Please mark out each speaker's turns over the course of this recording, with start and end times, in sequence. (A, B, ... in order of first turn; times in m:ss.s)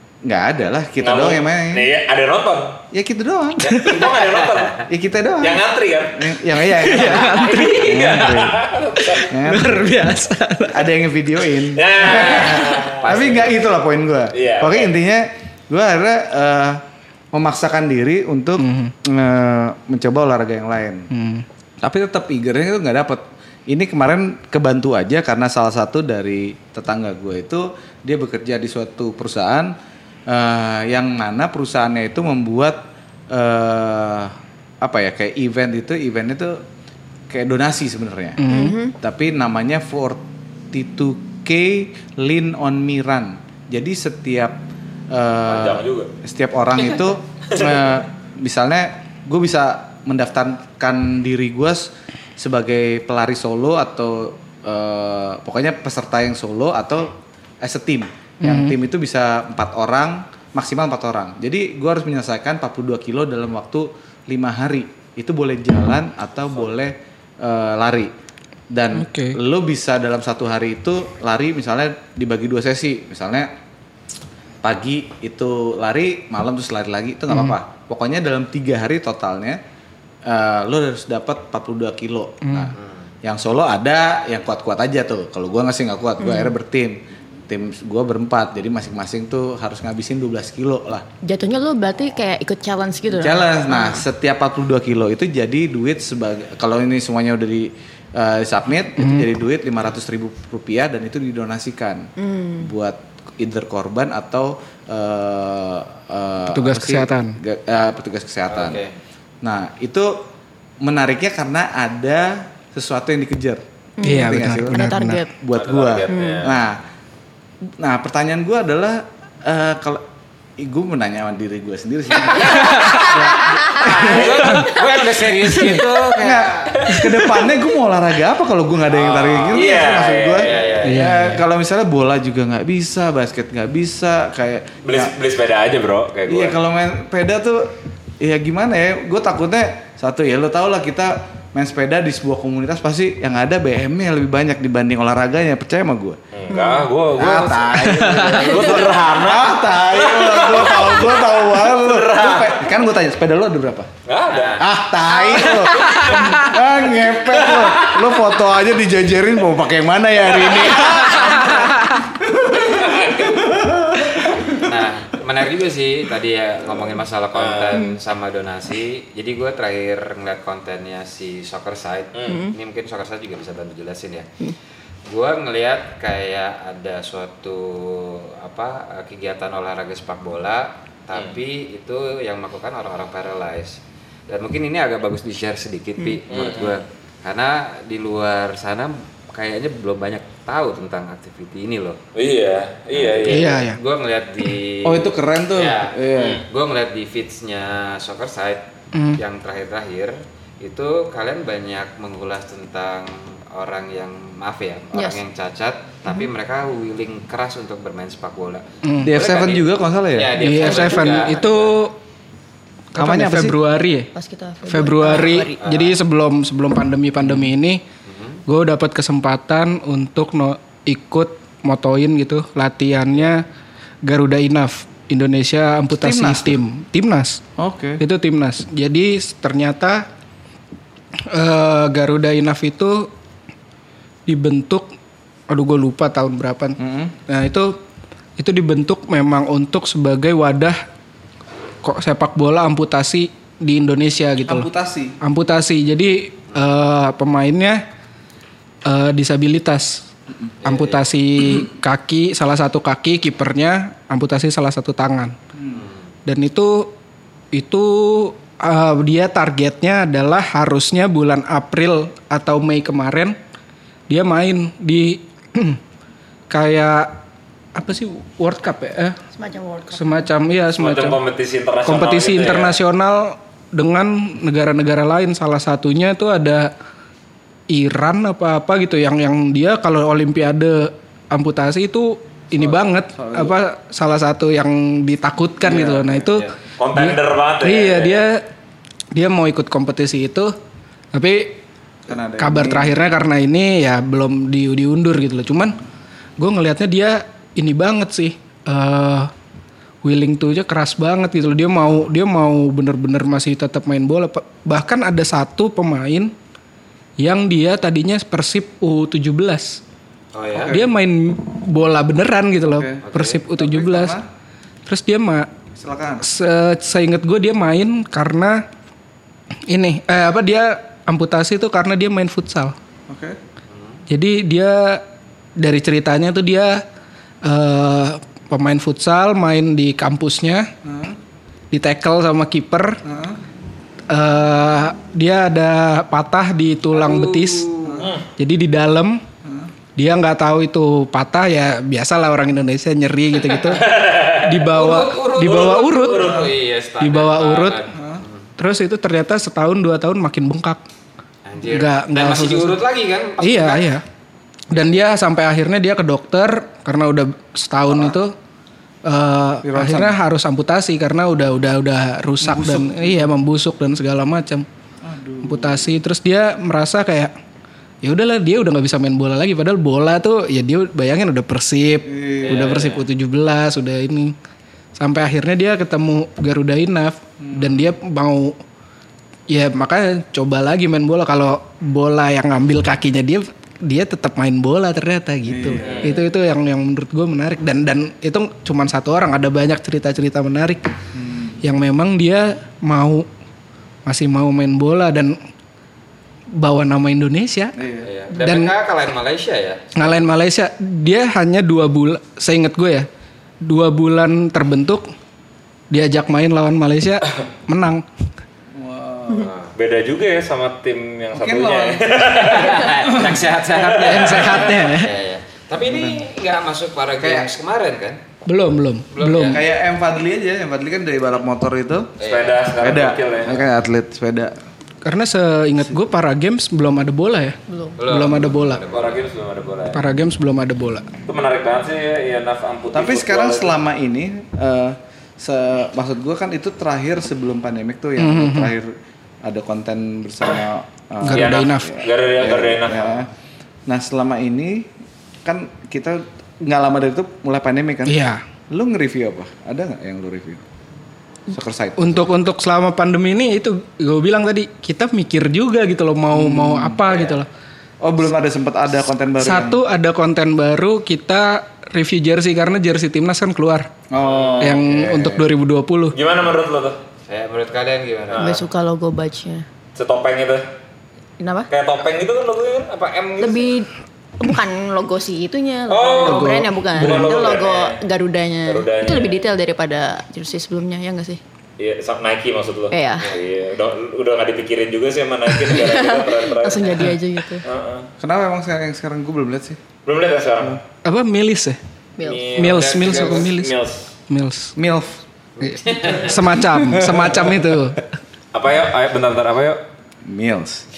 0:00.2-0:01.8 A
0:01.0-0:02.8 B
0:02.9-0:03.8 A
0:03.7-0:04.8 B
0:03.8-0:04.8 C
0:04.9-0:05.6 A
0:05.4-0:09.3 B
0:06.1-0:08.6 A
0:06.7-0:08.3 D
0:09.0-0:10.9 D
0:09.3-0:09.7 A
0:10.7-0:21.1 A
0:11.7-0:13.4 B
0:12.1-0:13.6 C
0:14.3-0:15.0 B
0:18.6-0:18.9 D
0:21.1-0:21.4 D
0:21.8-0:29.7 A
0:30.3-0:32.8 A
0:33.3-0:36.6 A
0:37.3-0:38.4 A
0:38.4-0:38.8 D
0:38.5-0:38.9 E
0:39.0-0:44.6 A
0:45.1-1:08.1 A
0:45.4-0:46.1 B
0:47.5-0:47.8 B
0:58.4-0:58.8 D
1:08.7-1:13.5 A
1:08.9-1:09.4 D
1:14.6-1:19.6 A
1:17.3-1:17.6 D
1:20.2-1:27.0 A
1:22.4-1:22.7 D
1:22.8-1:23.1 C
1:26.2-1:26.6 E
1:27.5-1:31.0 A
1:31.2-1:34.0 E
1:33.1-1:42.1 A
1:39.0-1:39.3 D
1:42.2-1:42.7 E
1:42.6-1:48.8 A
1:46.5-1:47.4 D
1:48.5-1:48.9 C
1:49.4-1:50.2 A
1:50.8-1:56.8 A
1:54.0-1:55.3 E
1:54.0-1:55.2 D
1:55.5-1:56.6 B
1:56.1-1:56.5 E
1:57.8-2:00.0 A
2:00.6-2:04.6 A
2:02.6-2:03.0 D
2:03.1-2:07.0 C
2:04.0-2:04.5 B
2:04.4-2:04.7 D
2:05.4-2:05.8 D
2:06.2-2:15.1 A
2:08.9-2:10.8 B
2:10.3-2:11.2 C
2:10.8-2:11.4 D
2:14.8-2:16.6 B
2:16.3-2:26.2 A
2:26.3-2:32.7 B
2:26.5-2:26.9 E
2:27.1-2:33.9 A
2:27.7-2:28.4 D
2:28.4-2:28.8 E
2:34.0-2:34.6 B
2:34.3-2:34.7 C
2:34.6-2:41.7 A
2:35.1-2:36.5 B
2:35.6-2:36.0 C
2:37.2-2:38.3 B
2:40.2-2:41.5 B
2:42.2-2:44.3 A
2:42.5-2:43.7 B
2:44.6-2:54.3 C
2:47.3-2:47.8 B
2:52.1-2:52.4 B
2:52.3-2:52.5 E
2:55.1-3:12.0 C
3:01.1-3:01.4 B
3:06.3-3:06.8 B
3:12.1-3:13.5 B
3:12.9-3:31.7 C
3:13.3-3:13.8 D
3:14.8-3:16.4 A
3:16.2-3:16.4 B
3:18.9-3:19.2 D
3:24.9-3:25.2 E
3:28.8-3:29.1 D
3:29.0-3:30.4 A
3:30.4-3:32.0 D
3:32.9-3:34.1 D
3:33.0-3:33.6 A
3:34.1-3:35.6 E
3:34.7-3:37.8 D
3:35.6-3:36.0 C
3:38.1-3:38.4 C
3:38.5-3:43.4 D
3:44.0-3:47.4 D
3:45.9-3:46.6 A
3:47.6-3:48.0 A
3:48.0-3:50.0 D
3:51.3-3:53.1 D
3:54.3-3:54.9 D
3:55.5-3:57.8 D
3:56.8-3:57.1 A
3:58.4-4:00.8 D
4:01.8-4:04.7 D
4:04.5-4:05.2 A
4:05.2-4:07.8 D
4:08.8-4:10.1 D
4:10.6-4:11.0 C
4:10.6-4:15.4 D
4:15.7-4:16.0 C
4:16.2-4:16.9 D
4:17.5-4:23.4 D
4:24.1-4:25.8 D
4:26.5-4:27.2 D
4:27.7-4:29.2 D
4:29.4-4:30.2 E
4:29.9-4:31.2 D
4:30.8-4:32.8 B
4:31.8-4:36.7 D
4:37.7-4:48.4 D
4:42.5-4:43.5 A
4:45.7-4:46.1 A
4:45.7-4:46.5 C
4:46.8-4:48.2 B
4:49.1-4:50.5 D
4:51.1-4:51.6 D
4:52.1-4:52.9 A
4:52.4-4:55.8 D
4:56.4-4:59.3 D
5:00.0-5:06.3 D
5:07.2-5:09.8 D
5:10.3-5:10.8 C
5:10.5-5:10.9 A
5:10.5-5:14.2 D
5:12.7-5:14.3 A
5:13.0-5:13.4 C
5:14.8-5:15.5 D
5:15.7-5:16.2 A
5:16.2-5:18.7 D
5:19.7-5:22.7 D
5:23.1-5:23.4 A
5:23.7-5:24.0 C
5:24.1-5:25.0 D
5:25.6-5:26.8 D
5:27.4-5:30.7 D
5:30.8-5:31.2 A
5:31.7-5:33.0 D
5:33.0-5:33.4 A
5:34.1-5:37.7 D
5:36.9-5:38.0 C
5:37.8-5:38.1 A
5:38.0-5:38.2 B
5:38.4-5:39.2 D
5:40.0-5:43.9 D
5:43.5-5:46.5 B
5:44.4-5:46.3 D
5:44.7-5:48.4 C
5:46.2-5:46.5 A
5:47.0-5:47.8 D
5:47.9-5:48.2 A
5:48.6-5:50.8 D
5:51.5-5:53.9 C
5:51.7-5:52.8 D
5:53.4-5:54.0 D
5:54.7-5:58.3 D
5:57.9-5:58.1 A
5:59.0-6:04.6 D
5:59.6-6:00.2 A
6:02.4-6:03.3 A
6:05.0-6:05.9 A
6:05.4-6:07.3 D
6:08.0-6:14.3 D
6:12.0-6:12.8 A
6:12.4-6:13.0 C
6:15.0-6:18.6 D
6:17.4-6:17.9 A
6:19.5-6:30.9 D
6:25.4-6:26.2 A
6:25.8-6:26.1 B
6:31.1-6:31.5 A
6:31.6-6:33.3 D
6:34.0-6:35.4 D
6:36.5-6:37.8 D
6:37.8-6:38.1 A
6:38.0-6:40.2 C
6:38.4-6:38.7 D
6:39.9-6:43.1 D
6:43.6-6:45.0 D
6:45.9-6:48.0 D
6:48.8-6:49.5 A
6:49.4-6:49.7 C
6:49.7-6:53.0 B
6:51.3-6:52.2 A
6:52.4-6:58.2 C
6:53.1-6:53.4 A
6:53.7-6:54.6 B
6:54.0-6:55.1 D
6:55.8-6:56.2 A
6:57.2-6:57.5 A
6:58.4-6:59.6 D
6:59.1-6:59.6 C
6:59.5-7:02.2 A
7:02.2-7:02.6 C
7:02.2-7:03.7 B
7:02.8-7:04.5 A
7:05.0-7:08.8 D
7:07.7-7:08.0 E
7:08.0-7:09.2 C
7:08.9-7:10.0 B
7:09.9-7:11.1 D
7:11.2-7:13.8 B
7:12.9-7:18.9 A
7:18.2-7:18.7 D
7:19.4-7:23.3 A
7:21.2-7:22.0 D
7:21.3-7:23.3 B
7:23.9-7:24.9 A
7:25.4-7:30.6 A
7:28.0-7:28.4 D
7:31.5-7:32.2 A
7:32.0-7:37.5 D
7:36.3-7:37.2 A
7:38.0-7:39.8 A
7:39.4-7:43.9 D
7:44.1-7:45.4 A
7:44.2-7:44.8 B
7:44.6-7:46.2 D
7:46.1-7:47.0 B
7:47.3-7:48.5 C
7:48.3-7:48.7 B
7:48.4-7:49.6 E
7:49.9-7:50.6 B
7:51.4-7:51.7 E
7:51.7-7:53.7 B
7:53.4-8:01.4 E
7:55.9-7:58.0 B
7:56.2-7:57.3 D
7:58.6-7:59.4 B
8:01.8-8:07.1 B
8:02.9-8:03.3 E
8:05.6-8:07.6 E
8:07.6-8:08.1 B
8:08.2-8:09.8 A
8:10.0-8:10.8 B
8:11.0-8:11.8 D
8:12.2-8:12.5 E
8:12.2-8:14.1 B
8:12.5-8:13.7 D
8:14.3-8:14.7 D
8:14.8-8:15.2 A
8:15.6-8:16.4 C
8:15.6-8:18.0 D
8:16.5-8:17.6 A
8:18.5-8:19.8 B
8:20.2-8:20.8 A